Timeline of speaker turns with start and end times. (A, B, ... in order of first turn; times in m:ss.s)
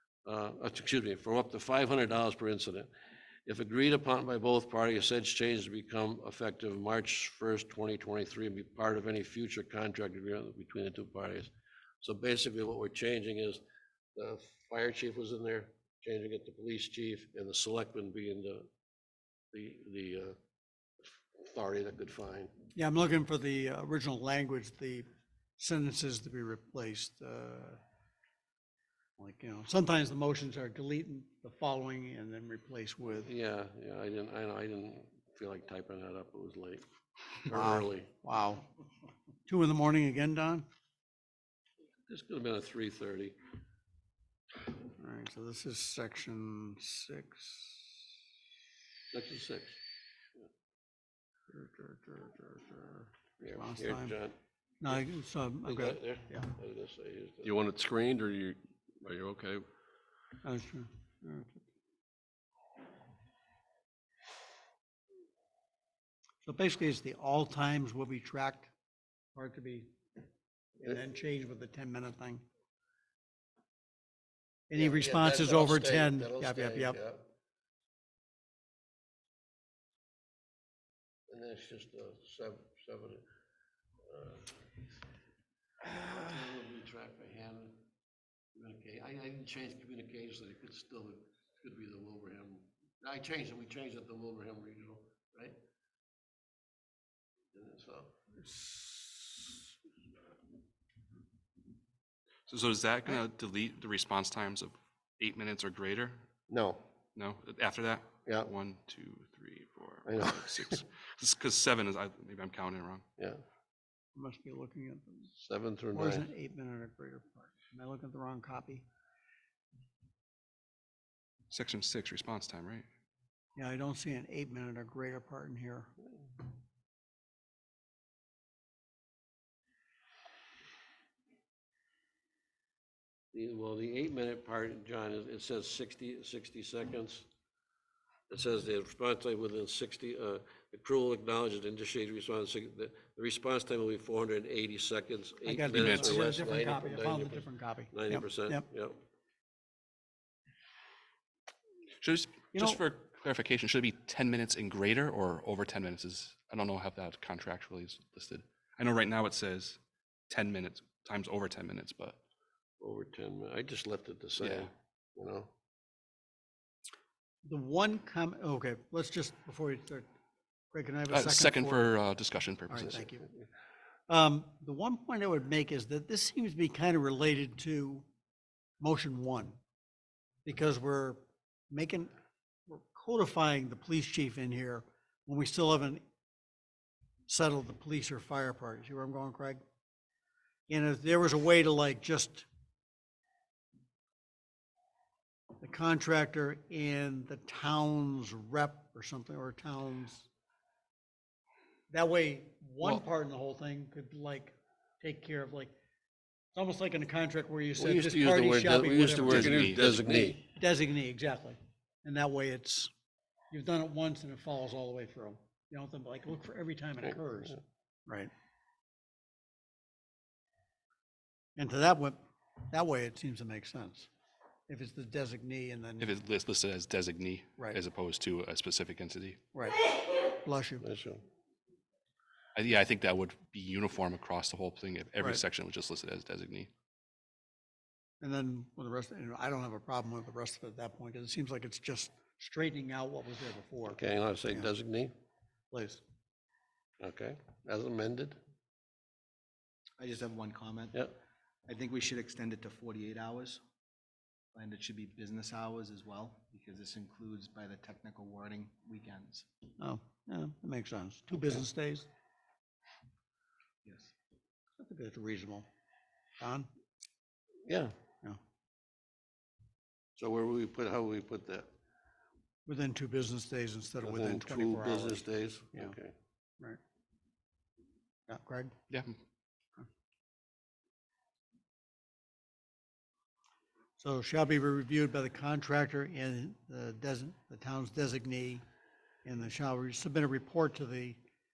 0:00.2-0:02.9 A
0:03.5-0:13.6 A
0:14.1-0:18.7 A
0:19.5-0:20.4 A
0:21.0-0:22.5 A
0:22.8-0:25.0 B
0:25.6-0:27.8 B
0:29.2-0:33.3 B
0:33.2-0:36.8 A
0:37.4-0:38.1 A
0:37.5-0:38.7 B
0:39.5-0:40.7 B
0:42.1-0:43.4 A
0:45.0-0:48.1 B
0:49.1-0:49.8 A
0:51.5-0:54.2 B
0:53.4-0:54.4 A
0:54.8-0:56.5 B
0:55.7-0:57.6 A
0:57.5-0:58.6 C
0:57.6-0:59.6 D
1:00.4-1:01.6 B
1:06.4-1:08.7 B
1:09.3-1:09.9 B
1:10.8-1:12.4 B
1:14.7-1:17.0 B
1:14.8-1:17.3 A
1:21.3-1:23.2 A
1:24.0-1:24.6 A
1:25.9-1:27.8 A
1:28.5-1:35.6 A
1:37.5-1:38.1 A
1:42.5-1:46.2 C
1:46.5-1:46.8 A
1:47.2-1:53.0 C
1:48.2-1:48.5 A
1:50.1-1:50.8 A
1:54.2-1:55.3 B
1:55.4-1:56.2 A
1:55.9-1:58.9 B
2:01.5-2:02.8 C
2:03.6-2:05.9 B
2:13.3-2:17.3 A
2:18.3-2:29.0 A
2:25.4-2:28.6 B
2:25.7-2:26.3 C
2:32.0-2:39.8 C
2:32.5-2:32.8 B
2:40.3-2:42.2 C
2:42.8-2:45.5 A
2:44.4-2:44.7 C
2:47.4-2:50.1 B
2:50.7-2:51.9 B
2:51.1-2:53.0 C
2:52.7-2:53.3 B
2:54.1-2:58.1 B
2:58.8-2:59.6 B
3:00.4-3:02.1 B
3:02.7-3:06.0 B
3:07.3-3:09.6 B
3:10.7-3:12.5 B
3:15.6-3:20.3 B
3:21.9-3:25.7 B
3:26.5-3:32.9 B
3:27.8-3:30.4 A
3:29.2-3:30.0 C
3:33.5-3:38.3 B
3:41.6-3:42.2 B
3:42.7-3:44.1 B
3:44.7-3:46.1 B
3:46.0-3:49.4 C
3:49.5-3:49.8 B
3:50.4-3:50.8 B
3:50.8-3:51.2 A
3:52.5-3:56.7 C
3:58.2-4:04.7 B
4:03.9-4:05.1 A
4:05.7-4:06.0 B
4:07.0-4:08.4 A
4:10.0-4:11.1 E
4:11.7-4:13.6 E
4:14.5-4:19.4 E
4:19.8-4:22.1 B
4:23.8-4:24.1 E
4:24.8-4:25.7 B
4:26.4-4:26.7 B
4:27.6-4:27.9 A
4:30.2-4:31.7 A
4:32.6-4:36.0 B
4:34.0-4:36.1 A
4:38.3-4:38.7 B
4:38.9-4:39.1 C
4:44.0-4:48.6 B
4:49.2-4:51.2 B